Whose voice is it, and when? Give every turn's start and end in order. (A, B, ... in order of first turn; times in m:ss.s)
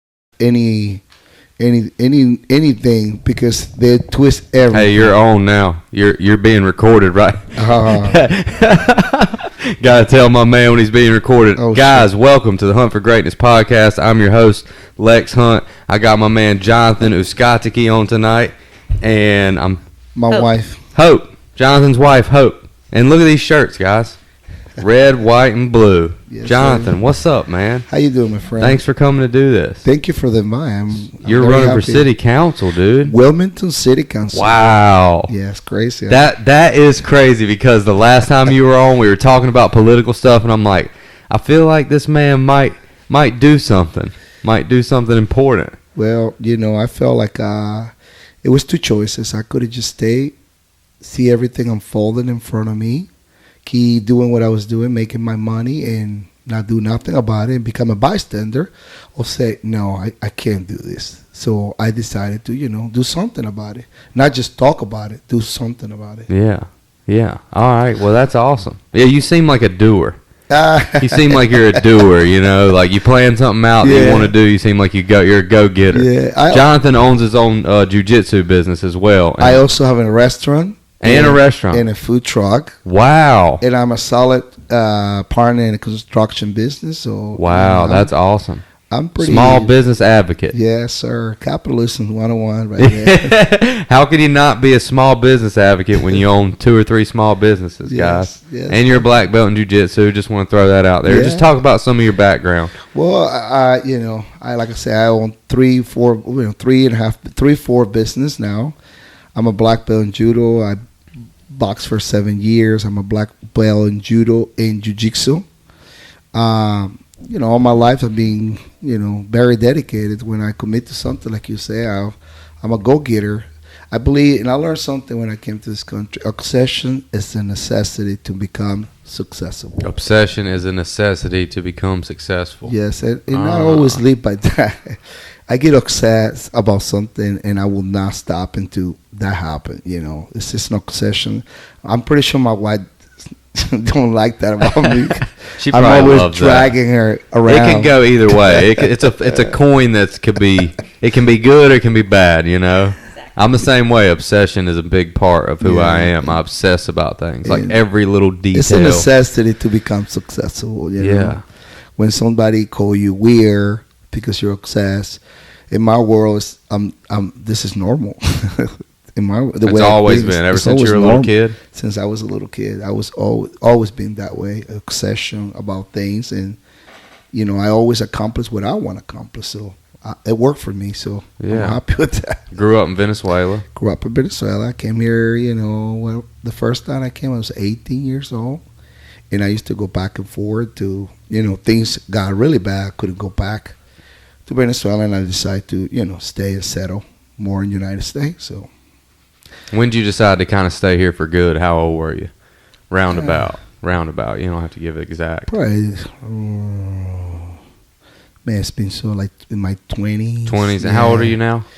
0:00.4-0:01.0 A
0:01.6-0:05.2 A
0:04.7-0:19.8 B
0:07.6-0:08.2 A
0:11.6-0:12.1 A
0:20.2-0:20.8 A
0:20.9-0:24.2 B
0:24.8-0:27.9 B
0:26.3-0:27.0 A
0:27.9-0:28.8 A
0:28.6-0:29.9 B
0:29.8-0:32.1 A
0:31.2-0:33.2 B
0:33.0-0:36.3 A
0:34.3-0:35.3 B
0:36.1-0:45.8 B
0:46.0-0:47.9 A
0:48.4-0:50.4 A
0:51.0-0:53.1 A
0:53.6-1:06.3 A
1:06.3-1:10.2 B
1:10.5-1:12.1 A
1:11.0-1:19.7 B
1:13.8-1:14.3 A
1:15.9-1:16.7 A
1:19.4-1:22.8 A
1:21.0-1:21.8 B
1:22.8-1:23.6 B
1:23.6-1:28.1 A
1:27.4-1:28.6 B
1:28.9-1:29.8 A
1:29.2-1:30.6 B
1:30.5-1:33.4 A
1:32.8-1:42.8 B
1:37.9-1:39.1 A
1:41.0-1:41.5 A
1:42.9-1:48.8 A
1:49.4-1:50.8 A
1:51.5-1:55.4 A
1:56.3-2:09.8 A
2:09.8-2:12.7 B
2:12.6-2:15.0 A
2:13.3-2:14.0 B
2:15.5-2:22.8 A
2:23.5-2:28.8 A
2:24.7-2:26.7 B
2:27.5-2:39.1 B
2:35.6-2:36.4 A
2:37.4-2:37.8 A
2:38.5-2:41.4 A
2:41.0-2:41.4 B
2:42.0-2:56.6 A
2:49.6-2:51.6 B
2:57.3-3:02.4 A
3:01.4-3:01.8 B
3:02.5-3:03.6 B
3:03.7-3:08.6 A
3:09.3-3:13.8 A
3:14.5-3:18.7 A
3:19.7-3:22.3 B
3:22.9-3:25.5 B
3:23.1-3:23.5 A
3:25.5-3:27.5 A
3:28.4-3:31.4 A
3:30.5-3:31.7 B